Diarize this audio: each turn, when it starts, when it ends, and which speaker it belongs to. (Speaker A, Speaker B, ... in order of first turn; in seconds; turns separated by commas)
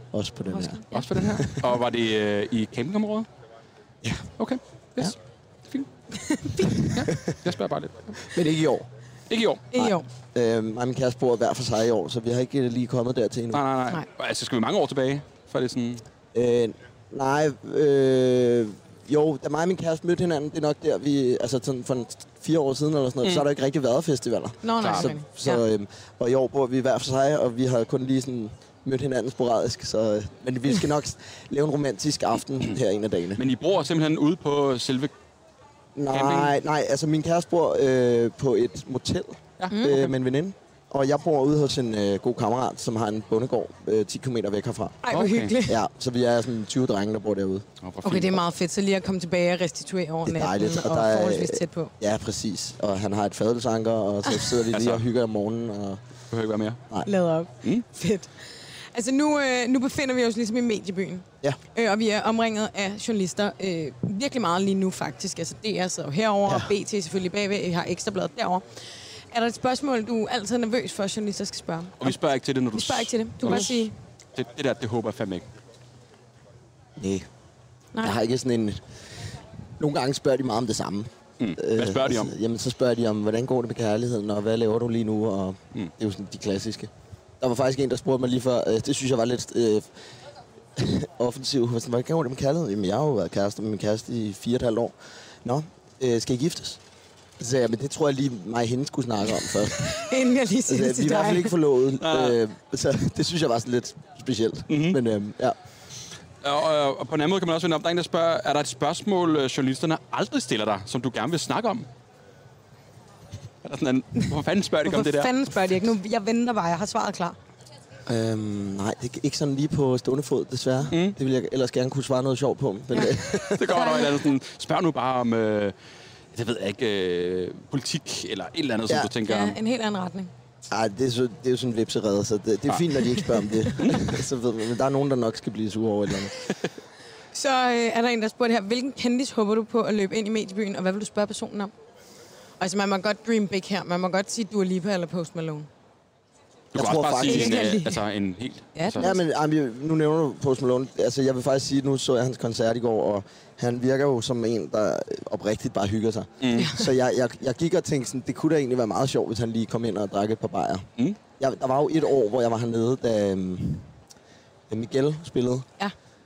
Speaker A: 0.1-1.7, Speaker B: 0.5-1.1, Speaker C: 0.9-3.3, Speaker A: 4.0-4.3, Speaker C: 4.4-5.2, Speaker B: 6.1-7.0, Speaker C: 6.8-8.3, Speaker A: 7.1-7.3, Speaker A: 8.3-8.9, Speaker C: 9.3-9.7, Speaker B: 9.7-10.1, Speaker A: 9.8-13.6, Speaker C: 13.5-16.0, Speaker A: 16.3-33.4, Speaker B: 24.6-25.6, Speaker C: 24.8-25.1, Speaker C: 33.4-35.1, Speaker A: 35.9-45.0, Speaker C: 36.1-36.5, Speaker C: 39.6-40.1, Speaker B: 39.7-40.0, Speaker B: 45.0-45.8, Speaker C: 45.1-45.5, Speaker A: 45.6-47.7, Speaker C: 47.8-48.4, Speaker B: 48.0-51.9, Speaker A: 50.2-56.0, Speaker C: 54.7-55.0, Speaker C: 56.3-56.8, Speaker B: 57.0-68.6, Speaker A: 66.5-66.7, Speaker B: 69.3-72.2, Speaker C: 72.0-75.4, Speaker B: 72.7-73.9, Speaker A: 77.0-77.3, Speaker A: 78.0-78.8, Speaker A: 79.8-89.9, Speaker C: 81.4-82.3, Speaker A: 90.8-96.8, Speaker A: 97.4-100.0, Speaker B: 99.8-101.5, Speaker A: 100.7-105.5, Speaker C: 102.0-102.4, Speaker C: 104.7-105.0, Speaker C: 106.4-111.9, Speaker C: 113.6-115.3, Speaker B: 114.8-117.4, Speaker A: 118.1-123.8, Speaker C: 120.9-121.2, Speaker B: 122.9-124.1, Speaker C: 123.4-125.7, Speaker C: 126.3-129.6, Speaker B: 129.2-130.3, Speaker A: 130.7-136.3, Speaker B: 133.7-134.1, Speaker B: 137.3-141.7, Speaker B: 142.6-145.7, Speaker A: 146.7-147.7, Speaker C: 146.7-149.1, Speaker B: 147.2-148.0, Speaker B: 148.8-149.2, Speaker A: 149.0-160.9, Speaker C: 156.4-156.7, Speaker B: 156.6-156.8, Speaker A: 161.4-163.9, Speaker A: 164.7-165.7